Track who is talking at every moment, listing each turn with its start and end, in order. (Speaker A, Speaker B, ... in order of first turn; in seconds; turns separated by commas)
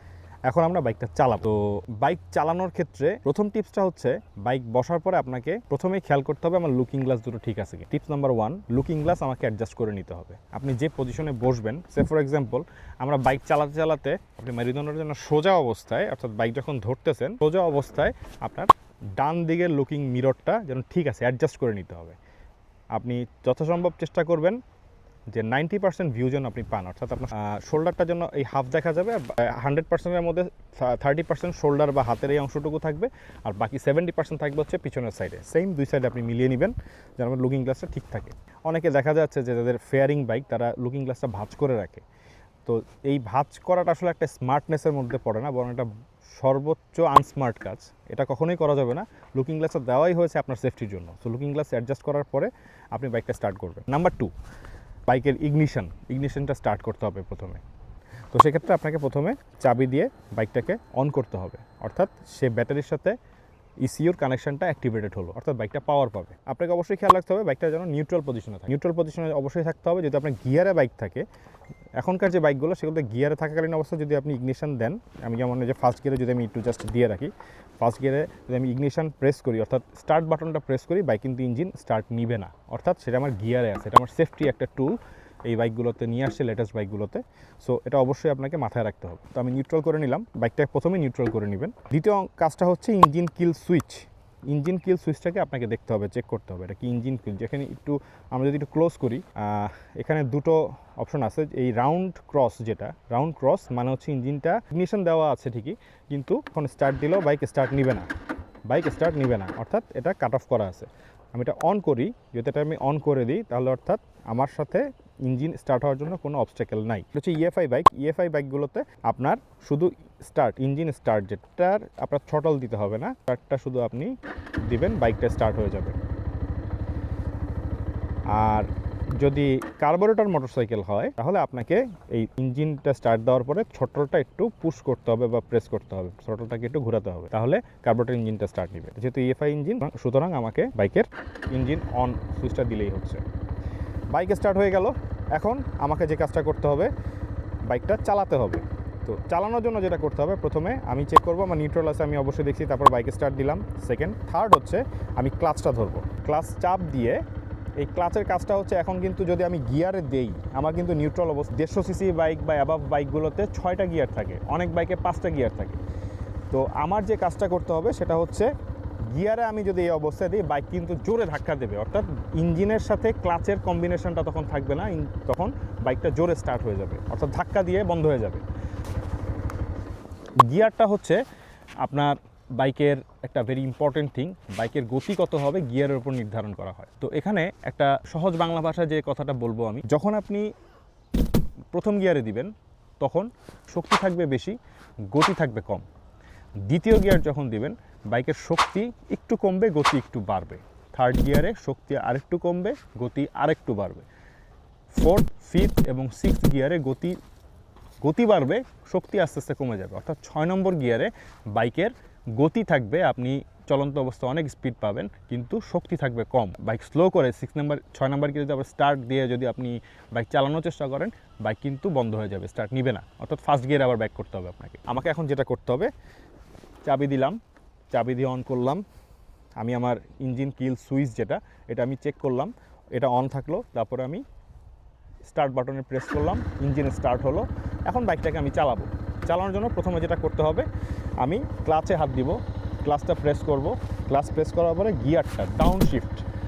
Speaker A: 0.5-22.2, Speaker A: 22.9-24.6, Speaker A: 25.3-42.0, Speaker A: 42.6-54.3, Speaker A: 55.1-57.6, Speaker A: 58.3-63.2, Speaker A: 63.8-71.3, Speaker A: 72.0-108.1, Speaker A: 108.7-124.1, Speaker A: 124.7-126.0, Speaker A: 128.3-143.2, Speaker A: 144.1-146.9, Speaker A: 147.7-157.2, Speaker A: 157.8-165.8, Speaker A: 166.5-168.5, Speaker A: 169.1-178.4, Speaker A: 180.4-181.2, Speaker A: 181.8-190.5, Speaker A: 191.7-194.6, Speaker A: 195.1-195.8, Speaker A: 196.7-204.1, Speaker A: 204.9-207.2, Speaker A: 208.0-225.9, Speaker A: 226.8-227.4, Speaker A: 227.9-228.8, Speaker A: 229.6-234.2, Speaker A: 235.2-240.7, Speaker A: 241.2-246.2